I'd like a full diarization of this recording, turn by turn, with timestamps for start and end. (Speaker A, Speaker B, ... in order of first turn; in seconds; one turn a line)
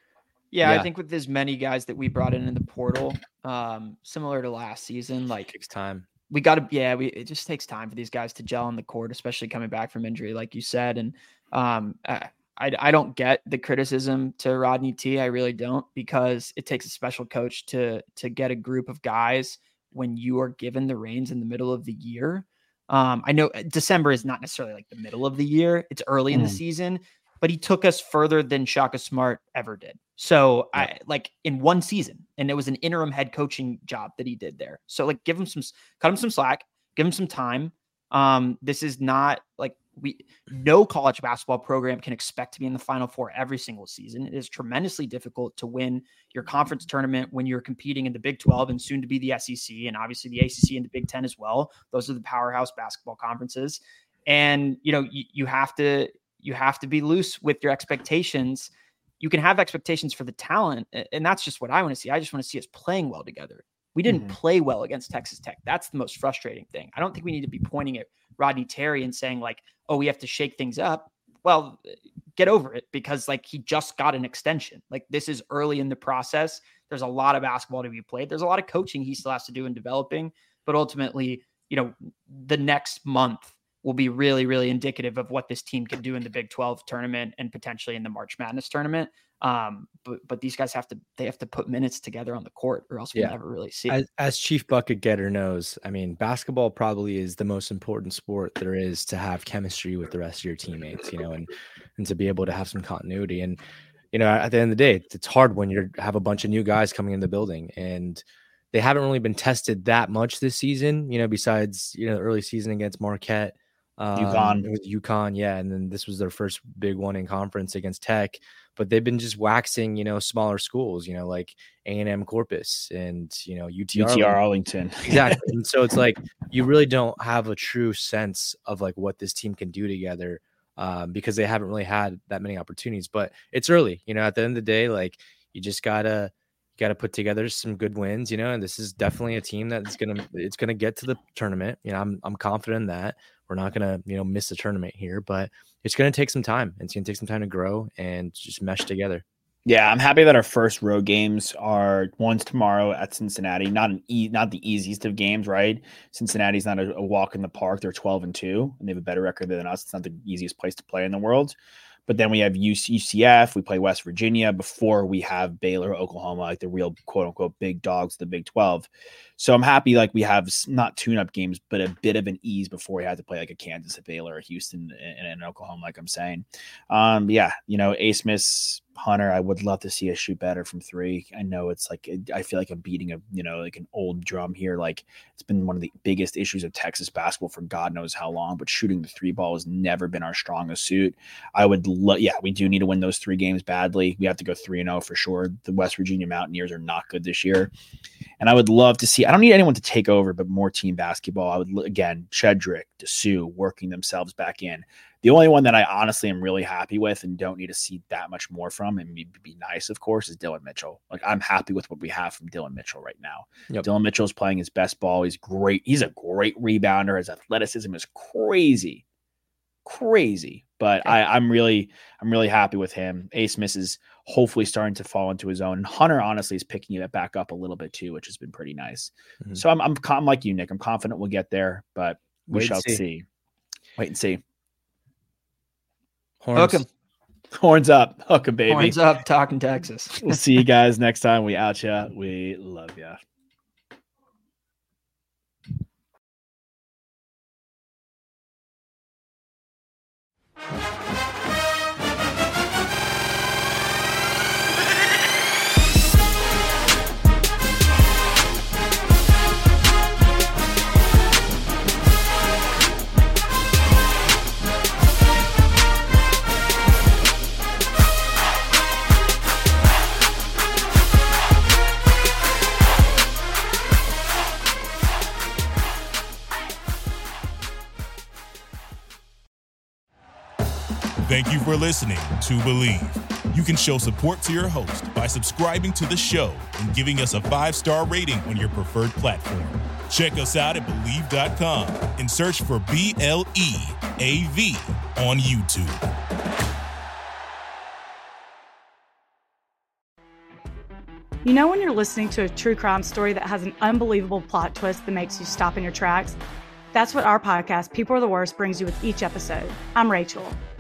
Speaker A: 0.5-5.5
Speaker B: 0.6-0.9
Speaker B: 5.5-6.1
Speaker A: 6.3-94.0
Speaker C: 26.3-26.6
Speaker C: 64.1-64.4
Speaker B: 93.9-103.6
Speaker B: 104.1-124.4
Speaker C: 114.2-114.7
Speaker C: 124.0-125.4
Speaker B: 125.0-149.2
Speaker C: 149.7-197.7
Speaker C: 198.4-219.0
Speaker C: 219.8-233.2
Speaker B: 232.5-233.0
Speaker C: 234.0-234.4
Speaker B: 236.4-236.9
Speaker A: 236.6-236.8
Speaker C: 237.5-239.0
Speaker A: 238.7-240.4
Speaker C: 240.2-243.2
Speaker D: 281.2-296.0
Speaker E: 301.4-306.4
Speaker E: 306.9-310.6